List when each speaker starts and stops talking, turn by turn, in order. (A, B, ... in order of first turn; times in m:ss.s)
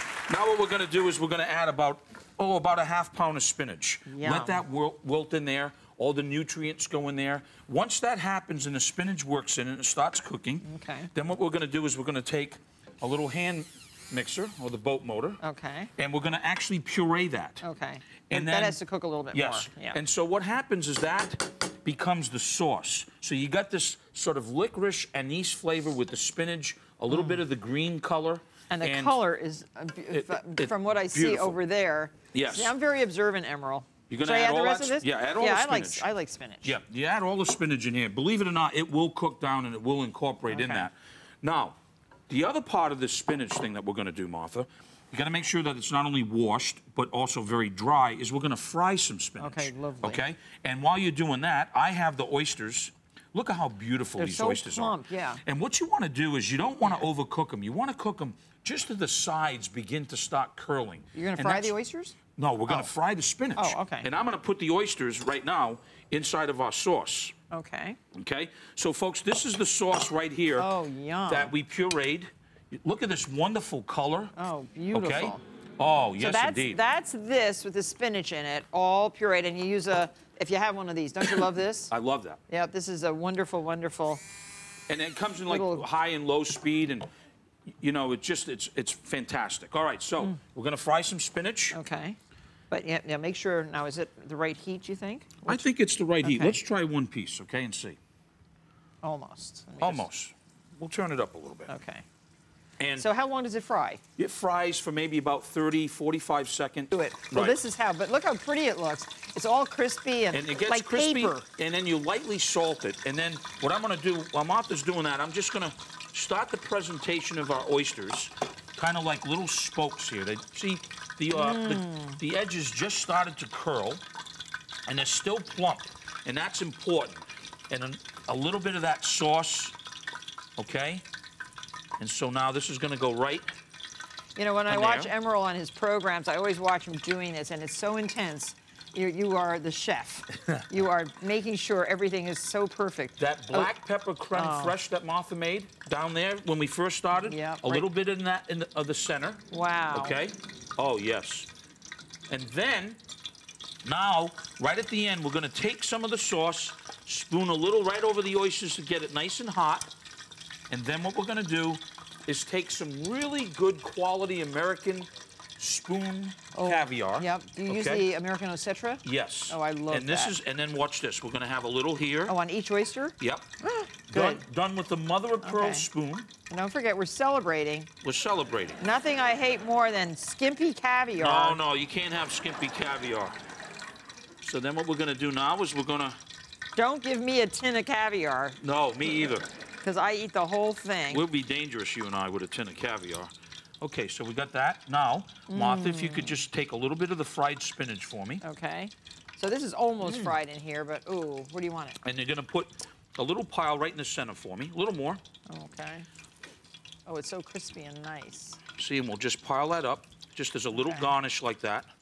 0:00.3-0:15.4 A
0:04.1-0:04.7 B
0:10.6-0:11.1 B
0:15.4-0:15.9 B
0:16.0-0:17.6 A
0:17.6-0:20.0 B
0:18.3-0:18.8 A
0:19.3-0:29.2 A
0:27.1-0:27.4 B
0:28.7-0:36.8 B
0:30.1-0:31.6 A
0:32.3-0:32.7 A
0:34.1-0:36.1 A
0:36.6-0:41.8 A
0:40.5-0:40.9 B
0:42.3-1:01.7 A
0:49.4-0:50.2 B
0:54.2-0:55.4 B
1:01.1-1:02.9 B
1:02.4-1:07.3 A
1:03.6-1:04.1 B
1:07.5-1:08.0 B
1:08.1-1:10.7 A
1:10.6-1:11.5 B
1:11.3-1:14.3 A
1:14.3-1:15.4 B
1:14.9-1:16.8 A
1:16.2-1:21.9 B
1:21.9-1:22.4 A
1:22.5-1:24.2 B
1:24.9-1:27.1 A
1:25.5-1:25.8 B
1:27.8-1:31.8 A
1:31.7-1:32.2 B
1:32.7-1:35.7 B
1:35.4-1:38.0 A
1:36.2-1:36.6 B
1:39.0-1:40.1 B
1:39.8-1:41.7 A
1:41.7-1:42.0 B
1:42.8-1:43.0 A
1:43.0-1:44.0 B
1:44.2-1:47.6 A
1:46.9-1:51.4 B
1:50.3-2:04.0 A
2:01.3-2:02.2 B
2:04.8-2:09.7 A
2:10.6-2:11.0 A
2:12.0-2:13.6 A
2:14.4-2:23.7 B
2:14.7-2:15.1 A
2:23.2-2:31.5 A
2:24.3-2:24.8 B
2:27.1-2:27.9 B
2:29.5-2:30.2 B
2:32.3-2:33.0 A
2:33.8-2:39.9 A
2:40.7-2:48.1 A
2:46.5-2:50.4 B
2:49.0-2:52.4 A
2:52.3-2:54.4 B
2:53.2-2:53.5 A
2:54.1-2:56.3 A
2:55.4-2:55.9 B
2:56.5-2:57.9 B
2:58.0-2:58.8 A
2:58.8-3:01.6 B
3:01.2-3:03.4 A
3:04.4-3:06.2 A
3:06.8-3:08.6 B
3:08.6-3:09.5 A
3:09.8-3:11.2 B
3:11.1-3:18.4 A
3:15.5-3:16.4 B
3:18.4-3:22.0 B
3:20.0-3:20.3 A
3:22.0-3:25.2 A
3:25.5-3:26.1 B
3:27.0-3:28.6 B
3:28.8-3:31.9 A
3:30.7-3:31.1 B